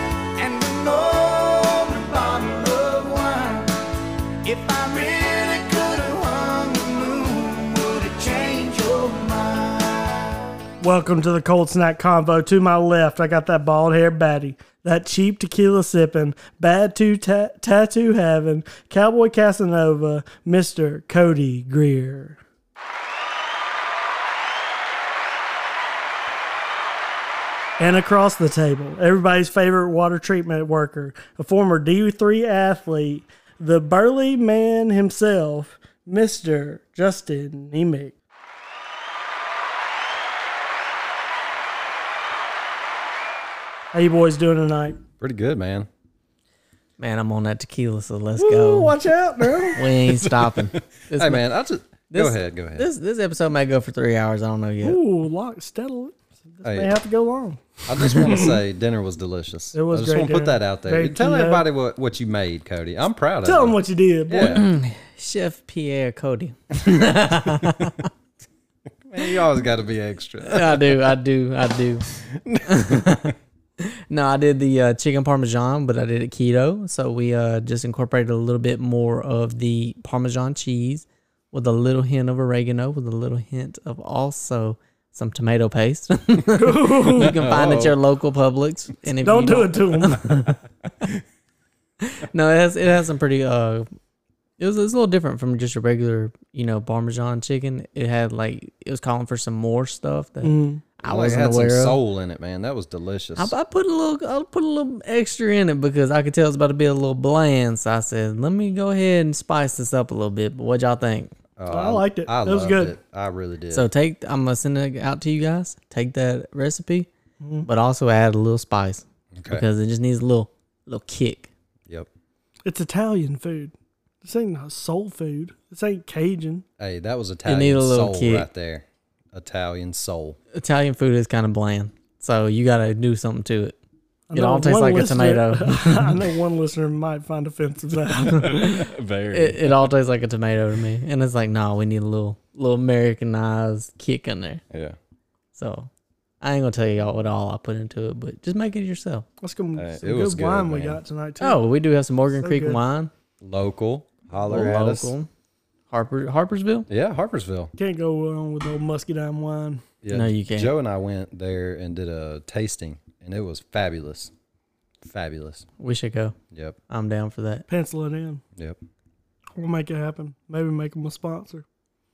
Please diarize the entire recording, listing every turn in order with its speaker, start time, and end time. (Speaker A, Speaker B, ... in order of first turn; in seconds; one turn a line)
Speaker A: 0.3-3.8
Speaker A: 4.4-10.4
Speaker B: 10.8-22.4
Speaker B: 27.8-38.1
Speaker B: 43.9-45.0
Speaker C: 45.2-45.9
Speaker D: 47.0-48.9
Speaker B: 48.4-49.8
Speaker D: 49.7-51.4
Speaker C: 50.0-52.9
Speaker D: 52.1-55.0
Speaker B: 54.8-58.5
Speaker C: 56.6-56.9
Speaker C: 57.9-63.8
Speaker B: 59.7-61.6
Speaker B: 63.4-64.7
Speaker C: 64.3-64.7
Speaker D: 64.4-68.1
Speaker C: 69.0-71.0
Speaker D: 70.4-72.0
Speaker C: 72.3-73.1
Speaker D: 72.6-90.6
Speaker B: 86.5-87.4
Speaker C: 87.2-88.0
Speaker B: 89.2-90.3
Speaker D: 92.0-93.8
Speaker D: 94.6-102.0
Speaker B: 100.4-100.8
Speaker C: 101.0-103.5
Speaker D: 103.4-111.3
Speaker C: 111.6-113.9
Speaker B: 111.7-112.9
Speaker D: 113.7-117.1
Speaker B: 117.4-117.7
Speaker D: 117.6-121.5
Speaker C: 119.3-119.6
Speaker B: 122.6-126.6
Speaker C: 126.8-130.4
Speaker D: 127.5-128.4
Speaker D: 130.5-133.7
Speaker B: 134.3-138.7
Speaker D: 134.3-136.2
Speaker C: 138.3-139.9
Speaker D: 139.3-144.6
Speaker C: 144.7-145.0
Speaker D: 145.5-145.9
Speaker D: 146.4-149.2
Speaker B: 149.4-151.6
Speaker C: 149.8-151.0
Speaker D: 151.4-153.1
Speaker B: 152.4-152.8
Speaker C: 153.4-155.1
Speaker D: 154.5-155.3
Speaker D: 155.9-156.9
Speaker C: 156.9-157.7
Speaker B: 157.8-159.8
Speaker C: 160.0-164.3
Speaker D: 160.1-160.7
Speaker C: 165.0-165.7
Speaker D: 165.8-166.3
Speaker C: 166.5-166.8
Speaker D: 166.9-167.6
Speaker B: 167.7-168.4
Speaker B: 169.6-171.6